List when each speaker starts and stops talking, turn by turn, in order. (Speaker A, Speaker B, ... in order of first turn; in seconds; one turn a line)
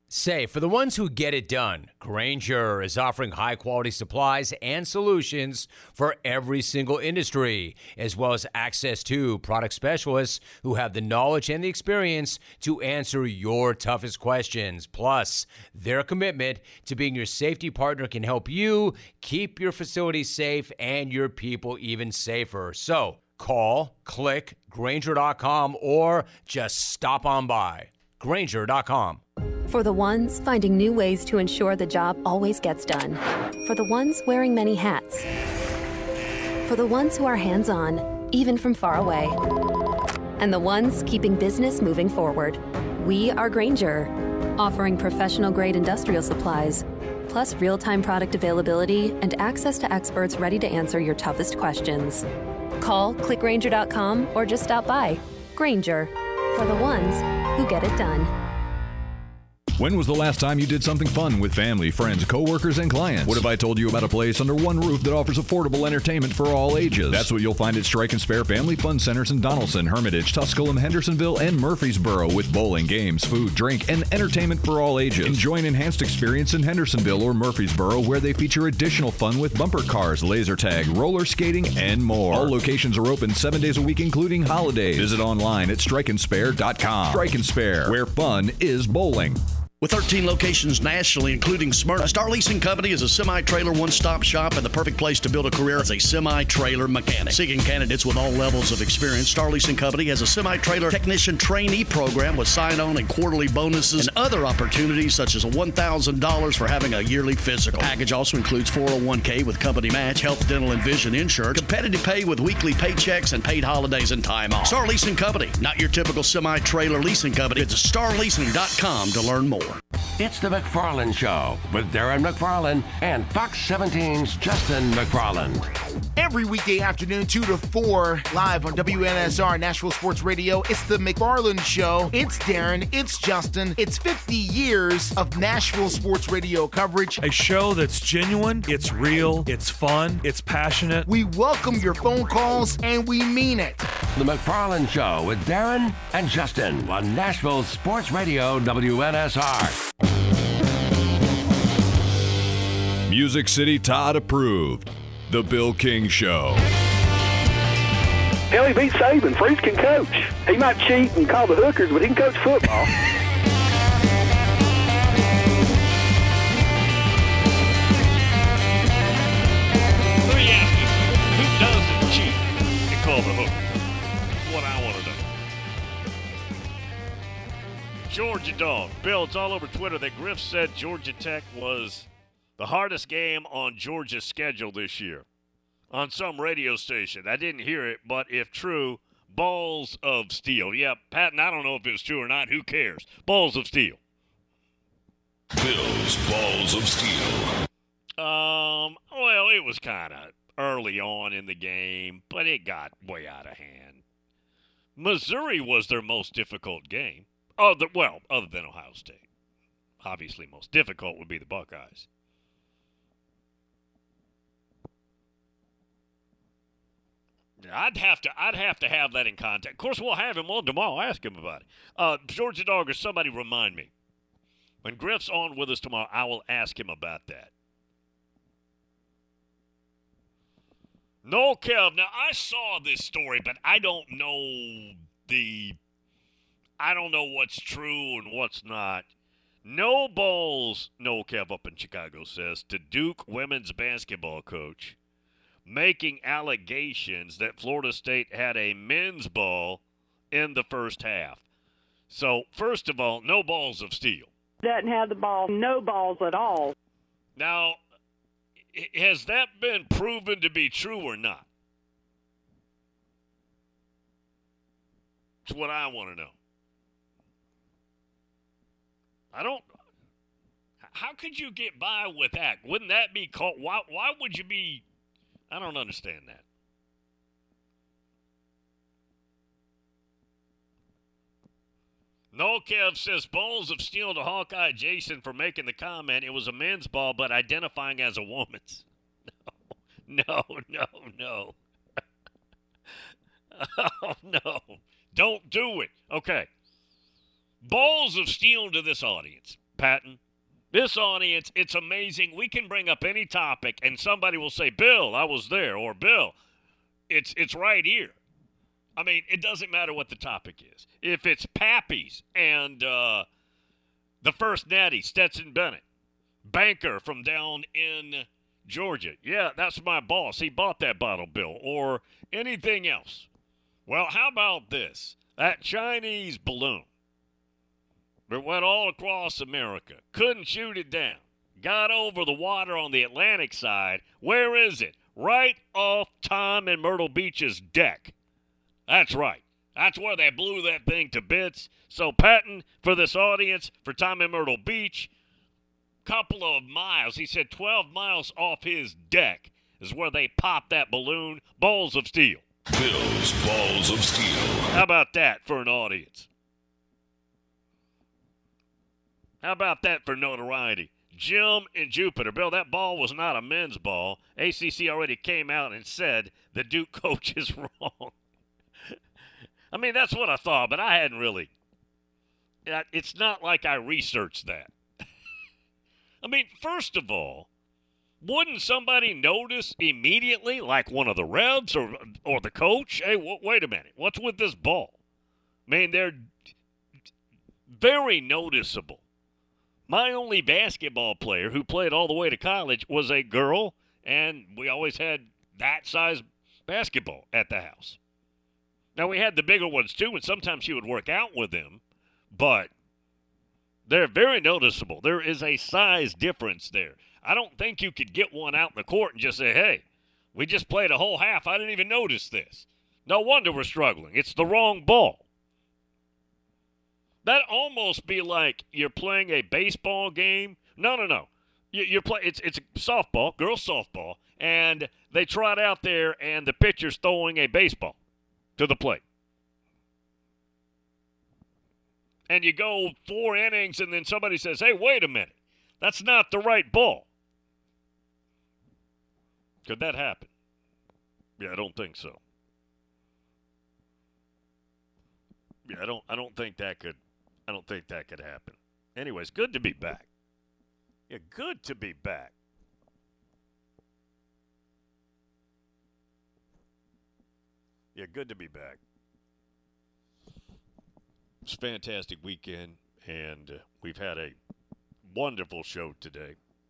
Speaker A: 0.1-29.2
Speaker B: 29.7-35.3
Speaker B: 36.6-39.4
Speaker B: 40.4-52.2
Speaker B: 52.8-58.3
Speaker C: 59.8-89.4
Speaker D: 89.8-119.8
Speaker E: 120.2-125.7
Speaker F: 126.2-137.2
Speaker G: 137.2-141.1
Speaker F: 141.1-143.8
Speaker E: 144.2-149.8
Speaker C: 153.1-156.7
Speaker H: 158.5-162.9
Speaker I: 170.2-173.6
Speaker I: 174.4-175.2
Speaker I: 178.1-185.2
Speaker I: 185.9-194.0
Speaker J: 195.6-197.5
Speaker I: 198.2-204.0
Speaker I: 204.9-209.2
Speaker I: 210.0-212.1
Speaker I: 217.6-223.9
Speaker I: 224.8-227.5
Speaker I: 231.2-235.8
Speaker I: 236.8-239.1
Speaker I: 239.6-244.9
Speaker I: 245.7-249.8
Speaker I: 250.3-251.4
Speaker I: 252.1-254.3
Speaker K: 254.6-256.7
Speaker I: 257.4-257.8
Speaker I: 258.7-261.5
Speaker I: 265.4-266.3
Speaker I: 269.3-269.7
Speaker I: 270.9-274.8
Speaker I: 275.5-276.4
Speaker I: 282.3-288.8
Speaker I: 290.1-291.5
Speaker I: 293.5-296.5
Speaker I: 297.6-300.2
Speaker I: 300.7-306.4
Speaker I: 307.1-308.2
Speaker I: 309.0-313.2
Speaker I: 314.2-315.8
Speaker I: 316.4-323.3
Speaker I: 323.9-326.9
Speaker I: 328.3-338.1
Speaker I: 338.9-345.1
Speaker I: 346.0-352.4
Speaker J: 352.7-354.7
Speaker I: 354.7-356.3
Speaker I: 359.4-368.1
Speaker I: 369.7-371.5
Speaker I: 372.6-374.7
Speaker I: 376.2-377.5
Speaker I: 378.2-385.0
Speaker I: 385.7-386.3
Speaker I: 387.7-389.0
Speaker I: 389.9-398.0
Speaker I: 398.9-401.8
Speaker I: 402.3-402.7
Speaker I: 403.9-415.2
Speaker I: 417.2-428.0
Speaker I: 428.6-429.0
Speaker I: 432.3-437.1
Speaker I: 439.6-440.3
Speaker I: 441.4-442.2
Speaker I: 445.7-450.1
Speaker I: 451.1-452.3
Speaker I: 457.9-458.8
Speaker I: 461.4-464.4
Speaker I: 465.1-466.4